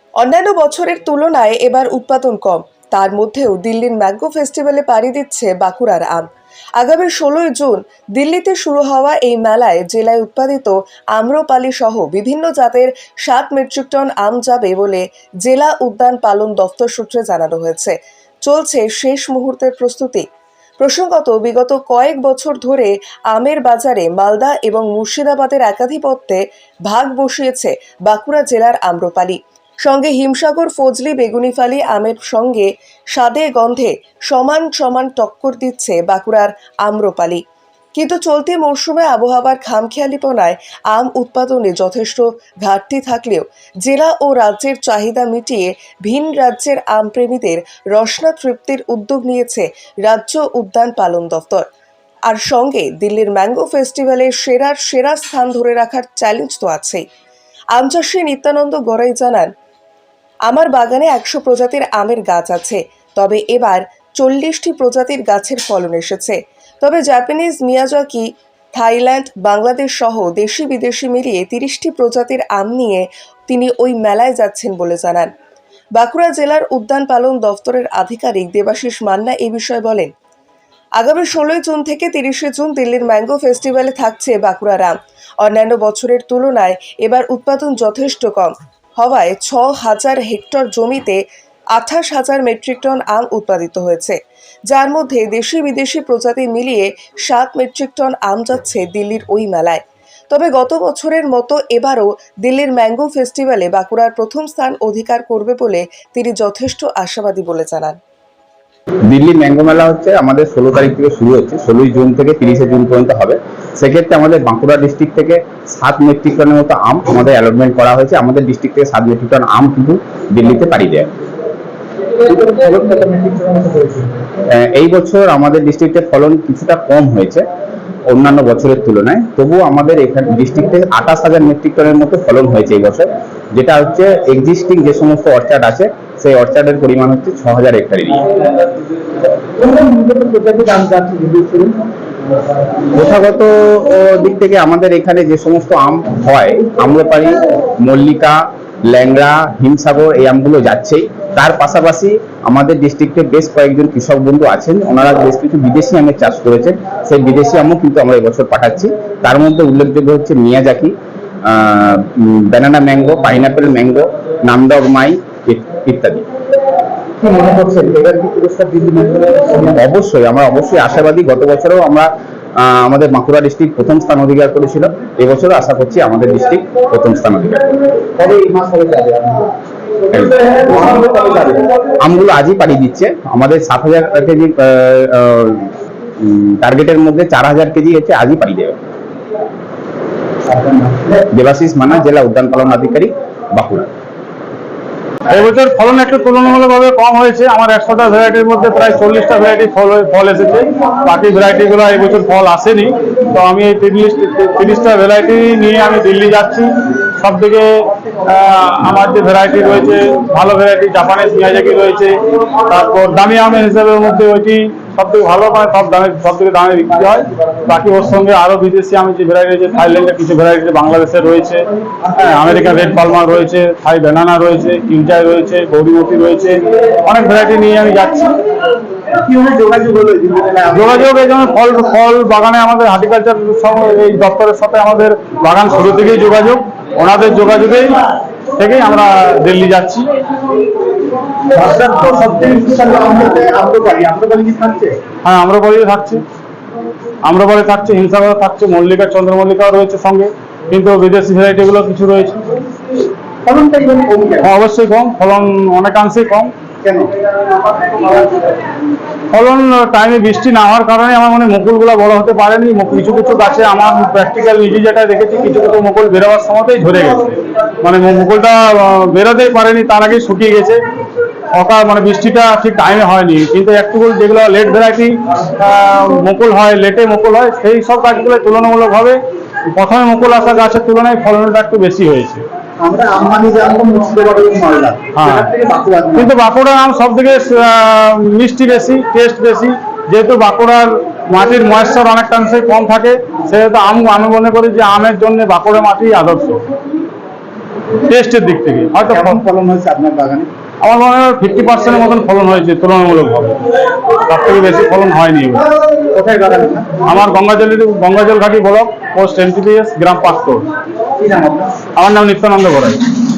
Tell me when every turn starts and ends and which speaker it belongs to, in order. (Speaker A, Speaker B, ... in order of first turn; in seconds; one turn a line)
Speaker A: 0.2-20.2
Speaker A: 20.8-37.4
Speaker A: 38.0-51.6
Speaker A: 52.3-57.0
Speaker A: 57.7-59.5
Speaker A: 60.5-75.3
Speaker A: 76.0-80.1
Speaker A: 81.0-91.2
Speaker A: 91.7-108.0
Speaker B: 109.0-121.2
Speaker C: 122.2-124.2
Speaker B: 124.5-127.5
Speaker B: 128.1-138.2
Speaker C: 139.6-141.8
Speaker B: 142.9-166.2
Speaker C: 167.2-169.8
Speaker B: 169.8-177.7
Speaker C: 178.2-179.5
Speaker C: 180.3-181.7
Speaker B: 182.0-188.8
Speaker C: 190.5-191.2
Speaker B: 191.3-193.9
Speaker D: 195.3-207.7
Speaker D: 208.2-228.4
Speaker C: 229.1-231.1
Speaker D: 230.7-240.1
Speaker C: 241.5-245.0
Speaker D: 245.2-246.2
Speaker D: 247.2-252.4
Speaker C: 253.4-254.5
Speaker D: 254.4-256.5
Speaker C: 256.8-257.1
Speaker D: 259.3-270.8
Speaker D: 271.6-279.2
Speaker D: 279.7-282.4
Speaker C: 282.8-286.3
Speaker D: 285.1-285.5
Speaker D: 286.2-296.6
Speaker D: 298.1-299.4
Speaker C: 299.1-300.5
Speaker D: 300.8-303.6
Speaker D: 304.2-305.7
Speaker C: 306.1-307.0
Speaker D: 307.1-310.7
Speaker C: 311.2-311.8
Speaker D: 311.9-313.1